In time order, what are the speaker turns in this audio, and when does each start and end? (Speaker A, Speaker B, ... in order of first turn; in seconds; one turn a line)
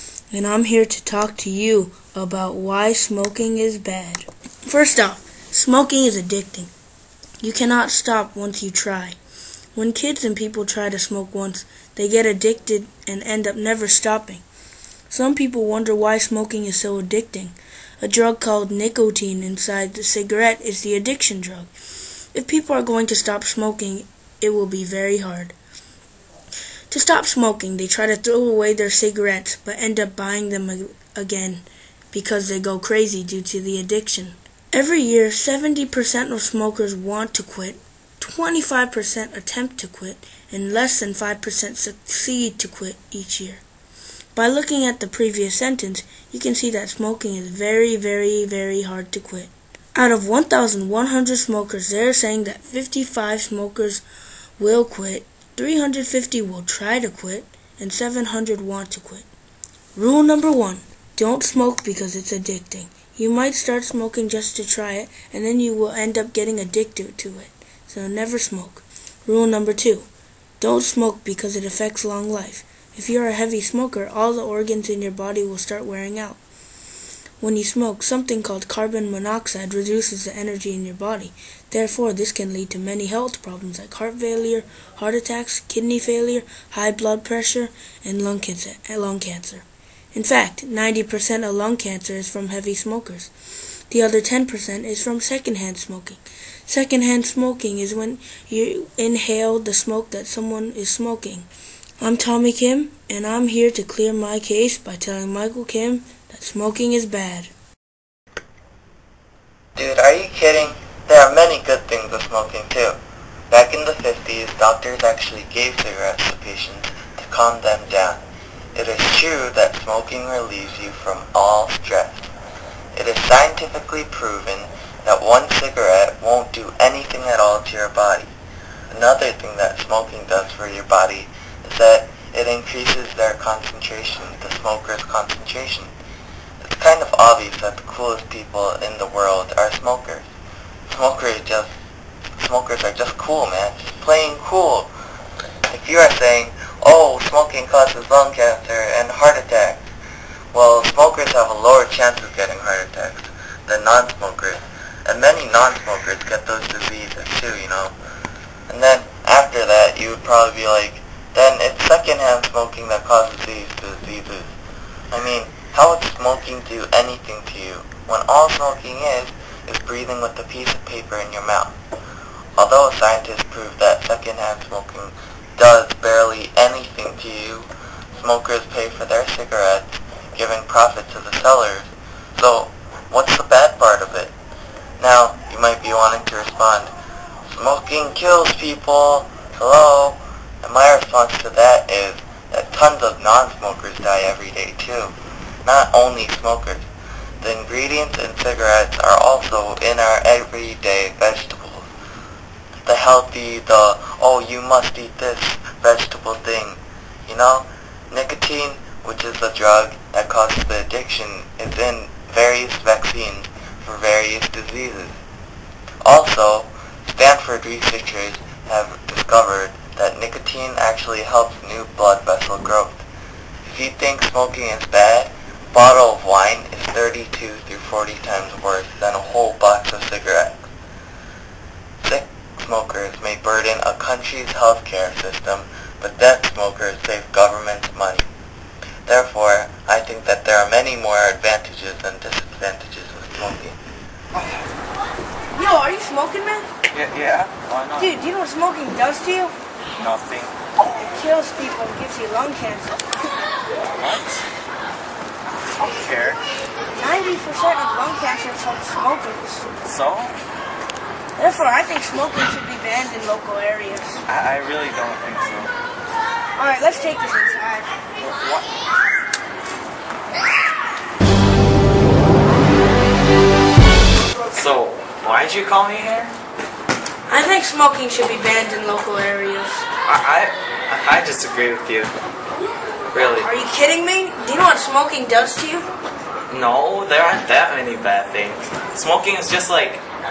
Speaker A: 0.3-6.7
Speaker A: 7.4-9.2
Speaker A: 9.8-14.4
Speaker A: 15.1-21.7
Speaker A: 22.3-25.5
Speaker A: 26.9-43.6
Speaker A: 44.4-54.0
Speaker A: 54.6-59.3
Speaker A: 60.0-70.1
Speaker A: 70.6-76.4
Speaker A: 77.4-93.3
Speaker A: 93.9-101.5
Speaker A: 102.0-107.5
Speaker B: 109.8-113.0
Speaker B: 113.5-118.2
Speaker B: 118.8-122.3
Speaker B: 123.0-128.3
Speaker B: 128.9-135.9
Speaker B: 136.6-140.3
Speaker B: 140.9-141.7
Speaker B: 142.4-144.9
Speaker B: 145.7-149.8
Speaker B: 150.5-157.9
Speaker B: 158.7-164.6
Speaker B: 165.1-171.8
Speaker B: 172.6-184.3
Speaker B: 185.0-186.9
Speaker B: 187.5-195.1
Speaker B: 195.7-196.9
Speaker B: 197.4-201.9
Speaker B: 202.9-215.2
Speaker B: 216.0-223.0
Speaker B: 223.7-230.7
Speaker B: 232.0-238.3
Speaker B: 239.1-243.8
Speaker A: 245.5-246.7
Speaker C: 246.9-248.2
Speaker A: 248.0-249.6
Speaker C: 250.0-250.5
Speaker A: 250.9-253.1
Speaker C: 254.0-254.4
Speaker C: 255.8-256.4
Speaker A: 256.9-259.7
Speaker C: 259.8-260.4
Speaker A: 261.4-264.2
Speaker C: 264.3-265.7
Speaker A: 266.6-267.9
Speaker C: 268.2-268.6
Speaker C: 274.5-276.3
Speaker A: 277.3-279.9
Speaker C: 280.1-282.1
Speaker C: 283.1-283.5
Speaker A: 283.4-285.9
Speaker C: 286.5-290.0